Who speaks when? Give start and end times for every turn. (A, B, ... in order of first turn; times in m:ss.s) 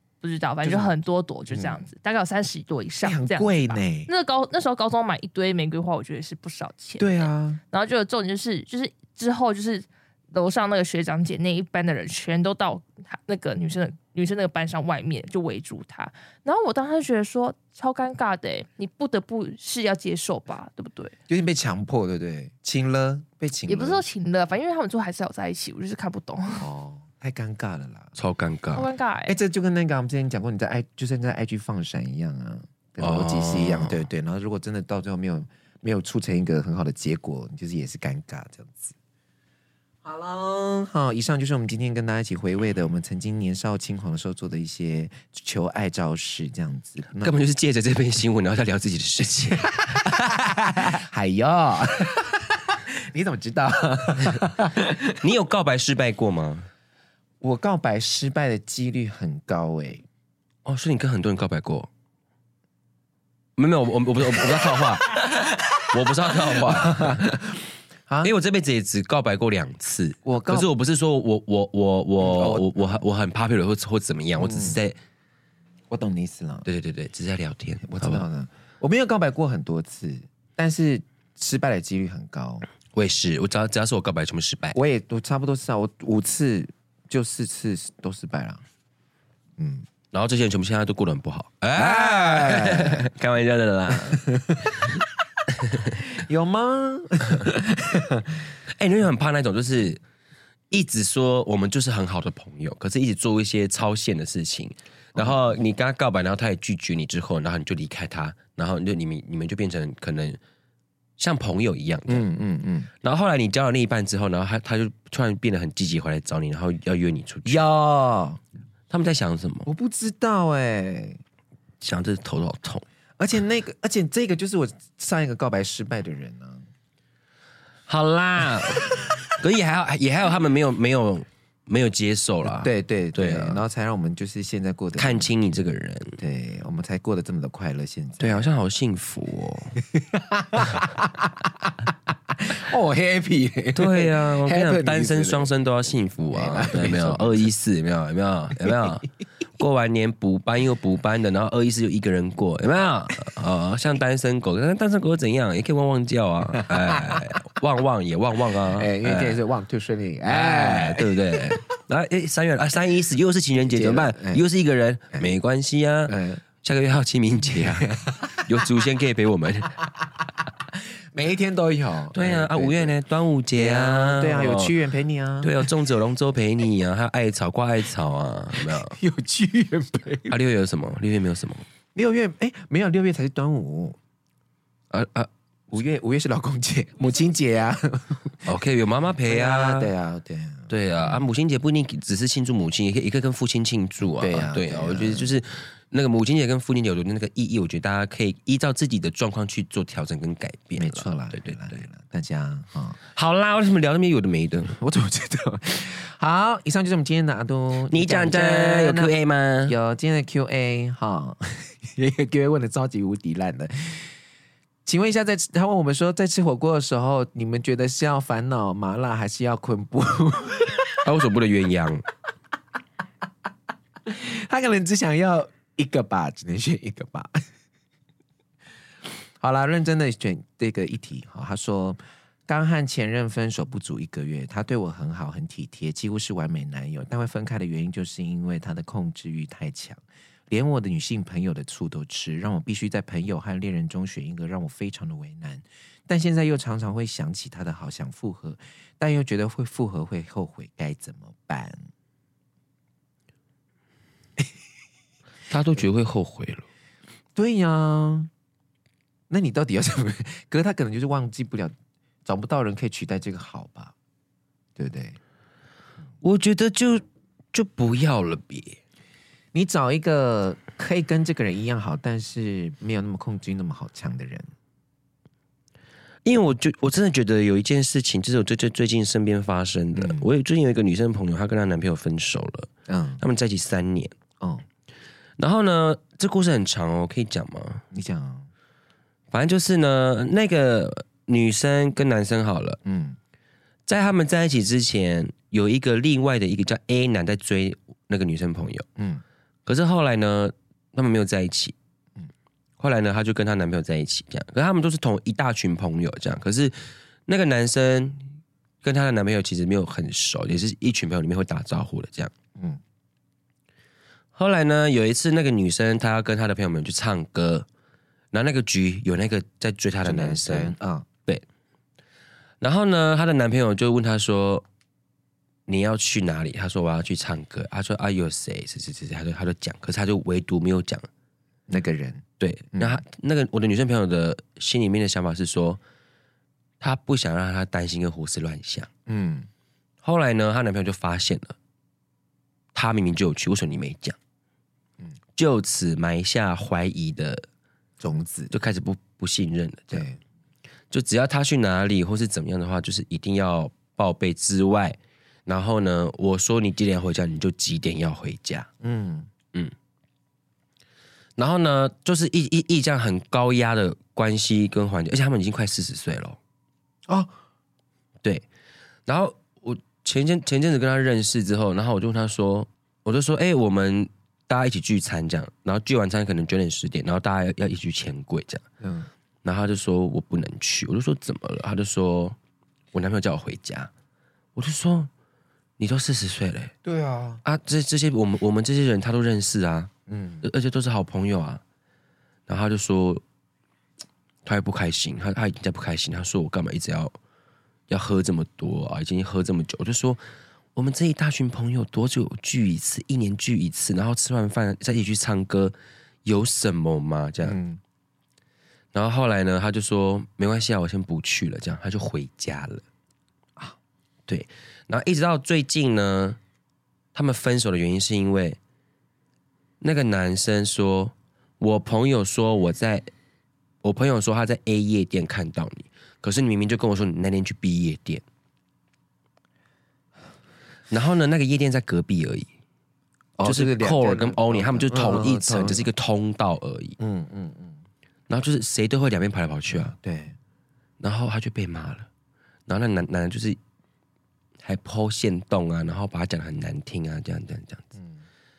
0:00.2-0:21.1 A
0:00.6-0:00.9 B
0:01.5-0:01.8 B
0:03.0-0:04.1 B
0:07.0-0:07.6 B
0:21.3-0:24.0 B
0:23.7-0:26.7 A
0:26.6-0:28.1 B
0:28.2-0:28.9 C
0:28.7-0:29.4 A
0:29.2-0:38.9 B
0:33.0-0:34.1 C
0:40.0-0:47.4 B
0:47.2-0:50.1 C
0:49.8-0:55.2 B
0:55.2-0:56.7 C
0:57.4-1:00.0 B
1:00.6-1:01.9 C
1:03.6-1:05.2 C
1:05.4-1:08.3 B
1:05.9-1:07.3 C
1:08.2-1:15.0 C
1:10.2-1:10.7 B
1:12.2-1:13.0 B
1:14.4-1:14.8 B
1:15.9-1:16.7 B
1:16.6-1:18.2 C
1:17.8-1:22.7 B
1:22.9-1:24.8 C
1:24.7-1:28.6 B
1:29.6-1:29.8 B
1:30.1-1:34.8 C
1:31.8-1:33.0 B
1:34.1-1:35.0 B
1:35.8-1:38.5 B
1:38.7-1:40.0 C
1:40.7-1:50.4 C
1:45.1-1:45.5 B
1:51.2-1:52.2 C
1:52.1-1:52.9 B
1:53.0-1:57.6 C
1:57.4-1:58.4 B
1:58.9-1:59.7 C
1:59.6-2:01.2 B
2:01.8-2:02.8 C
2:03.2-2:06.7 B
2:07.9-2:13.6 C
2:08.7-2:09.1 B
2:12.6-2:15.3 B
2:15.0-2:16.2 C
2:16.2-2:18.5 B
2:18.2-2:19.8 C
2:19.9-2:25.5 B
2:23.7-2:29.0 C
2:26.3-2:27.5 B
2:29.6-2:39.4 C
2:36.5-2:37.3 B
2:38.7-2:41.7 B
2:40.3-2:49.7 C
2:43.7-2:44.4 B
2:45.1-2:45.4 B
2:46.1-2:46.4 B
2:47.8-2:48.6 B
2:49.8-2:53.0 B
2:52.1-2:54.7 C
2:53.5-2:55.7 B
2:55.4-2:59.0 C
2:58.6-3:00.4 B
3:00.3-3:01.7 C
3:01.9-3:04.0 B
3:04.9-3:05.3 C
3:05.7-3:08.5 B
3:08.4-3:09.9 C
3:09.2-3:11.2 B
3:10.7-3:21.8 C
3:14.0-3:15.3 B
3:20.8-3:23.0 B
3:23.0-3:24.8 C
3:24.7-3:29.1 B
3:27.9-3:29.7 C
3:29.6-3:34.1 B
3:34.8-3:41.0 B
3:41.0-3:42.0 C
3:44.1-3:47.4 B
3:49.4-4:11.9 B
4:15.5-4:16.6 C
4:17.4-4:18.3 B
4:19.3-4:21.7 B
4:22.2-4:23.9 B
4:24.8-4:25.2 B
4:26.2-4:28.8 C
4:29.5-4:34.5 B
4:36.2-4:42.7 C
4:39.9-4:40.3 B
4:42.9-4:43.2 B
4:43.2-4:44.1 C
4:44.4-4:44.6 B
4:45.4-4:47.8 C
4:47.9-4:48.5 B
4:49.3-4:52.8 C
4:52.8-4:53.2 B
4:53.9-4:58.8 C
4:59.0-4:59.2 B
4:59.6-5:01.7 C
5:02.8-5:06.8 C
5:07.3-5:08.2 C
5:08.8-5:12.3 C
5:12.6-5:12.8 B
5:14.3-5:17.7 C
5:18.3-5:20.7 C
5:20.0-5:21.1 B
5:22.6-5:24.6 C
5:25.7-5:31.1 C
5:31.7-5:33.0 B
5:32.4-5:35.8 C
5:36.8-5:38.9 C
5:39.1-5:39.5 B
5:40.0-5:41.6 C
5:42.7-5:44.2 C
5:45.4-5:47.4 C
5:48.0-5:48.5 B
5:48.5-5:50.0 C
5:49.9-5:50.2 B
5:50.9-5:58.7 C
5:58.8-5:59.3 B
6:01.4-6:06.4 C
6:07.1-6:07.3 B
6:09.1-6:18.6 C
6:18.8-6:19.1 B
6:19.4-6:22.4 C
6:22.9-6:23.9 C
6:24.6-6:25.1 C
6:25.8-6:26.7 C
6:26.8-6:27.4 B
6:27.4-6:29.9 C
6:30.1-6:30.5 B
6:30.4-6:31.6 C
6:32.5-6:33.2 C
6:34.4-6:37.2 C
6:37.9-6:40.2 C
6:40.7-6:45.7 C
6:46.2-6:47.6 C
6:47.4-6:47.8 B
6:48.9-6:52.8 C
6:54.3-6:56.4 C
6:57.1-6:58.6 C
6:59.8-7:03.1 C
7:03.8-7:08.2 C
7:10.9-7:12.5 C
7:13.4-7:15.8 B
7:13.4-7:17.0 C
7:17.0-7:17.8 B
7:18.3-7:19.9 C
7:19.7-7:20.4 B
7:21.0-7:22.1 C
7:22.7-7:23.6 C
7:24.6-7:27.9 C
7:28.0-7:28.2 B